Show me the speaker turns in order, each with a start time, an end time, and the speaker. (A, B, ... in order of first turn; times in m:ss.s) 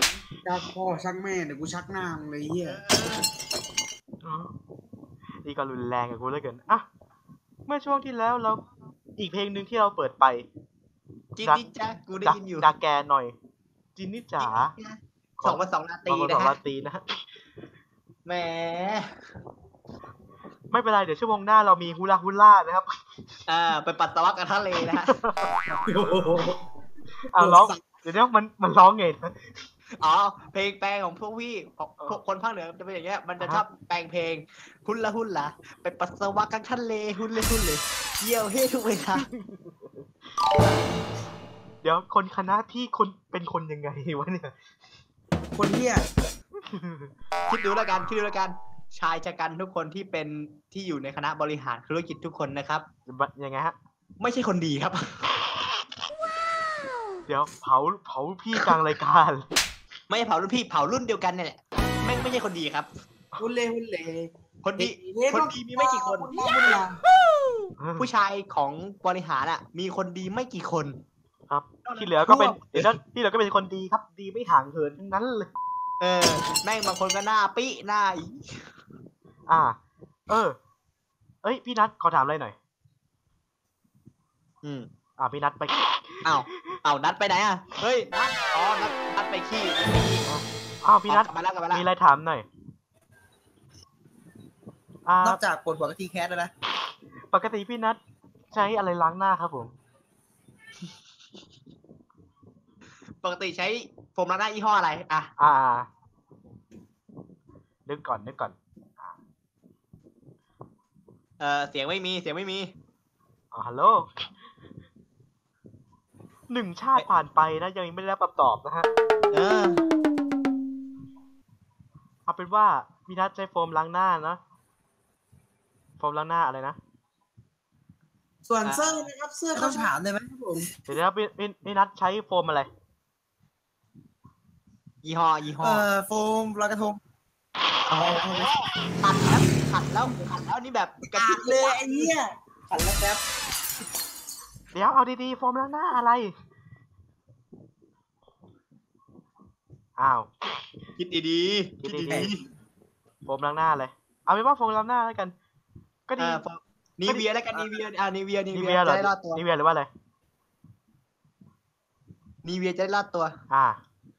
0:00.4-0:02.8 A
0:02.6-0:03.3 B
0:04.2-0:04.5 C
0:05.4-0:06.8 C
0:07.7-0:08.6 C
0:09.2-0:10.4 C
0:11.4-0:12.7 B
0:12.2-0:13.3 C
0:14.0-0:14.7 C
0:14.4-0:16.6 B
0:15.4-0:17.0 C
0:18.2-0:19.2 B
0:20.7-0:22.9 C
0:23.5-0:25.2 B
0:25.1-0:26.5 C
0:27.3-0:29.6 C
0:27.4-0:27.7 D
0:30.0-0:39.3 B
0:39.2-0:40.0 C
0:41.8-0:44.5 C
0:45.5-0:46.0 A
0:46.6-0:47.1 C
0:47.5-0:52.9 B
0:53.1-0:53.7 C
0:54.2-0:55.4 B
0:57.3-0:59.5 C
1:00.1-1:02.9 B
1:03.4-1:07.0 A
1:04.6-1:06.8 B
1:07.8-1:08.1 C
1:08.0-1:11.0 B
1:11.5-1:15.5 C
1:11.8-1:12.9 B
1:16.0-1:18.7 B
1:19.5-1:19.8 C
1:20.3-1:20.6 C
1:21.4-1:22.6 C
1:24.6-1:24.9 B
1:25.2-1:26.7 C
1:26.2-1:30.3 B
1:30.3-1:32.4 C
1:31.1-1:31.8 B
1:35.0-1:35.4 C
1:35.2-1:36.5 D
1:37.3-1:38.0 C
1:38.5-1:39.7 C
1:43.2-1:45.3 B
1:45.4-1:45.9 C
1:47.8-1:49.2 C
1:51.4-1:52.7 B
1:53.5-1:54.3 C
1:56.5-1:58.9 C
1:59.3-1:59.8 B
2:02.2-2:04.4 C
2:06.0-2:06.8 C
2:08.4-2:09.9 A
2:08.6-2:09.1 B
2:09.5-2:10.6 D
2:10.9-2:12.7 C
2:15.0-2:15.8 B
2:15.6-2:17.0 D
2:17.9-2:22.1 B
2:21.1-2:23.2 D
2:24.7-2:26.3 C
2:30.0-2:30.3 C
2:31.0-2:32.4 B
2:31.8-2:32.3 C
2:33.2-2:35.3 C
2:36.1-2:36.4 C
2:36.2-2:39.4 B
2:37.0-2:37.6 C
2:38.5-2:39.9 C
2:42.4-2:43.4 B
2:43.5-2:43.8 C